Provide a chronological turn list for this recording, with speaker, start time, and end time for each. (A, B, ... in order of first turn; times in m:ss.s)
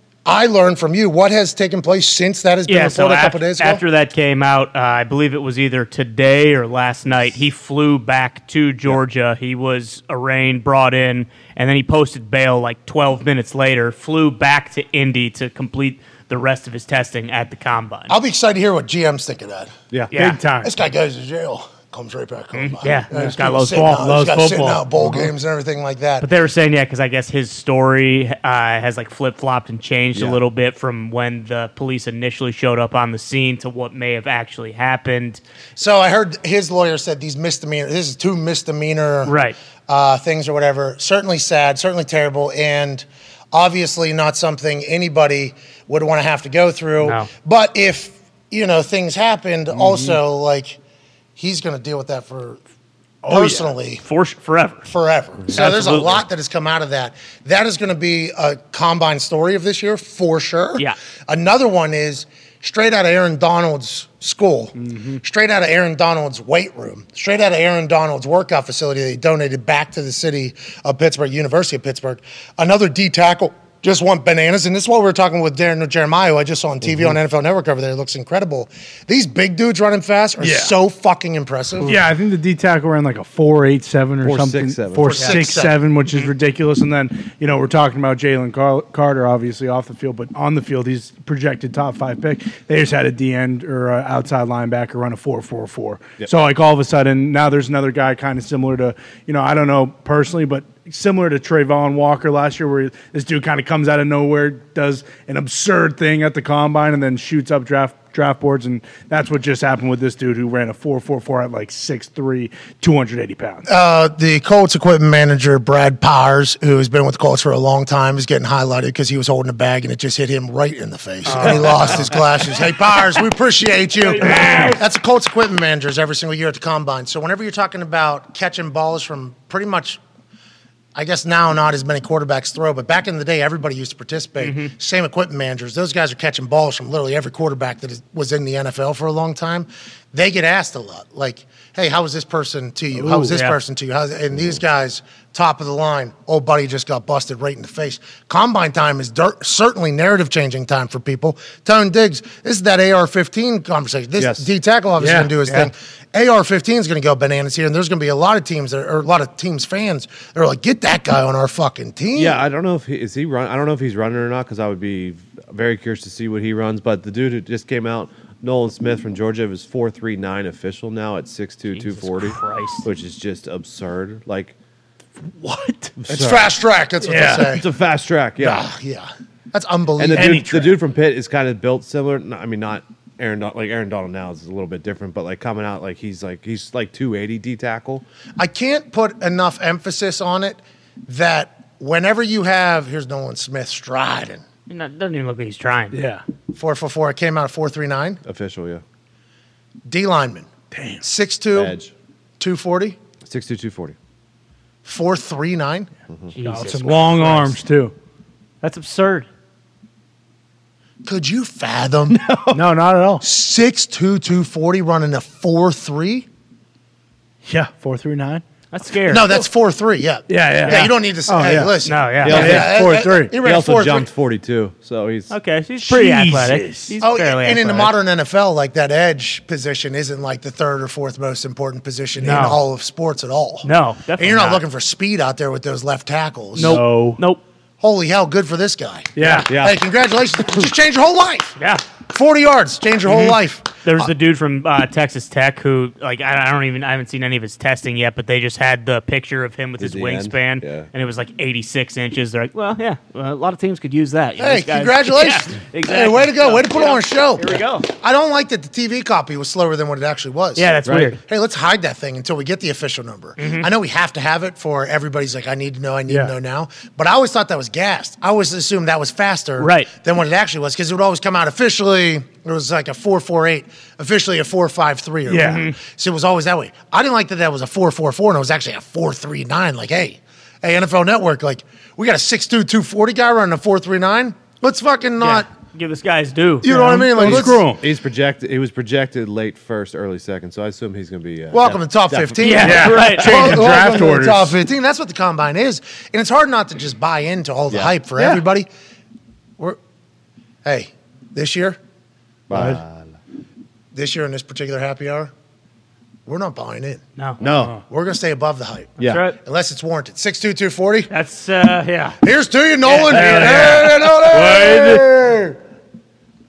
0:00.2-0:03.8 A
0:02.7-0:18.1 B
0:18.1-0:19.7 A
0:20.1-0:20.4 B
0:20.1-0:20.7 C
0:20.6-0:26.3 A
0:22.5-0:23.9 B
0:23.1-0:25.3 C
0:26.2-0:35.4 B
0:30.1-0:30.4 D
0:35.8-0:39.4 A
0:39.2-0:39.6 B
0:39.9-0:50.8 A
0:47.0-0:47.3 B
0:49.7-0:50.2 C
0:51.4-0:52.6 A
0:53.2-0:53.7 C
0:53.3-0:54.0 A
0:54.0-0:54.9 B
0:54.9-1:21.9 A
0:55.5-0:56.2 B
1:04.8-1:05.2 C
1:16.8-1:17.1 D
1:20.4-1:20.7 C
1:21.8-1:53.6 C
1:24.2-1:25.3 D
1:25.0-1:25.8 A
1:53.6-2:10.0 A
2:01.2-2:02.1 B
2:01.3-2:02.0 C
2:04.1-2:04.8 C
2:04.2-2:04.8 B
2:10.9-2:42.4 A
2:14.4-2:14.7 B
2:22.9-2:23.4 C
2:23.3-2:23.6 B
2:24.3-2:24.6 D
2:34.2-2:34.5 D
2:35.0-2:35.7 C
2:42.1-2:54.6 D
2:51.7-2:52.9 B
2:55.3-2:55.9 C
2:56.0-2:56.5 D
2:56.1-2:57.6 A
2:57.0-2:57.4 C
2:57.2-2:58.7 D
2:58.4-3:00.5 A
3:00.0-3:08.0 D
3:00.1-3:00.7 C
3:08.4-3:14.4 A
3:14.7-3:16.0 B
3:15.9-3:16.2 C
3:16.5-3:18.2 A
3:18.2-3:18.8 D
3:19.9-3:20.5 A
3:20.7-3:21.0 C
3:21.0-3:21.8 A
3:21.5-3:21.9 D
3:22.4-3:23.0 A
3:23.2-3:24.0 D
3:24.8-3:25.9 A
3:26.4-3:27.5 B
3:26.4-3:27.9 C
3:28.6-3:29.3 B
3:31.0-3:32.2 A
3:32.1-3:32.6 D
3:32.5-3:33.2 C
3:33.2-3:36.3 A
3:37.4-3:38.4 C
3:38.7-3:39.3 B
3:39.1-3:44.1 A
3:40.3-3:41.7 C
3:40.6-3:40.9 B
3:41.8-3:42.6 B
3:42.2-3:42.8 D
3:42.2-3:43.3 C
3:43.4-3:45.3 D
3:45.3-3:47.9 B
3:45.8-3:46.9 C
3:47.0-3:56.8 A
3:52.2-3:52.6 B
3:53.6-3:54.6 B
3:56.6-3:57.2 C
3:56.6-3:57.4 B
3:57.8-4:01.6 A
3:59.2-3:59.5 C
3:59.2-3:59.5 B
3:59.5-3:59.8 D
4:01.6-4:01.8 B
4:02.1-4:04.1 A
4:03.1-4:17.9 B
4:09.8-4:10.9 D
4:14.4-4:45.5 A
4:20.6-4:21.2 B
4:20.8-4:21.2 D
4:23.4-4:23.7 B
4:26.1-4:26.3 C
4:29.6-4:29.9 B
4:35.3-4:35.6 C
4:35.4-4:35.8 B
4:45.2-4:46.7 B
4:46.6-4:47.6 A
4:46.6-4:47.8 C
4:47.2-4:53.0 D
4:51.5-4:58.7 A
4:52.4-4:53.6 B
4:52.6-4:54.6 C
4:58.2-4:58.4 C
5:00.6-5:01.8 A
5:02.5-5:03.1 D
5:02.5-5:02.8 C
5:03.9-5:05.3 A
5:06.2-5:07.0 A
5:07.4-5:07.8 D
5:07.9-5:11.1 A
5:09.0-5:09.2 D
5:09.0-5:09.4 B
5:11.1-5:12.2 B
5:12.2-5:15.6 A
5:12.8-5:14.0 B
5:13.1-5:15.1 C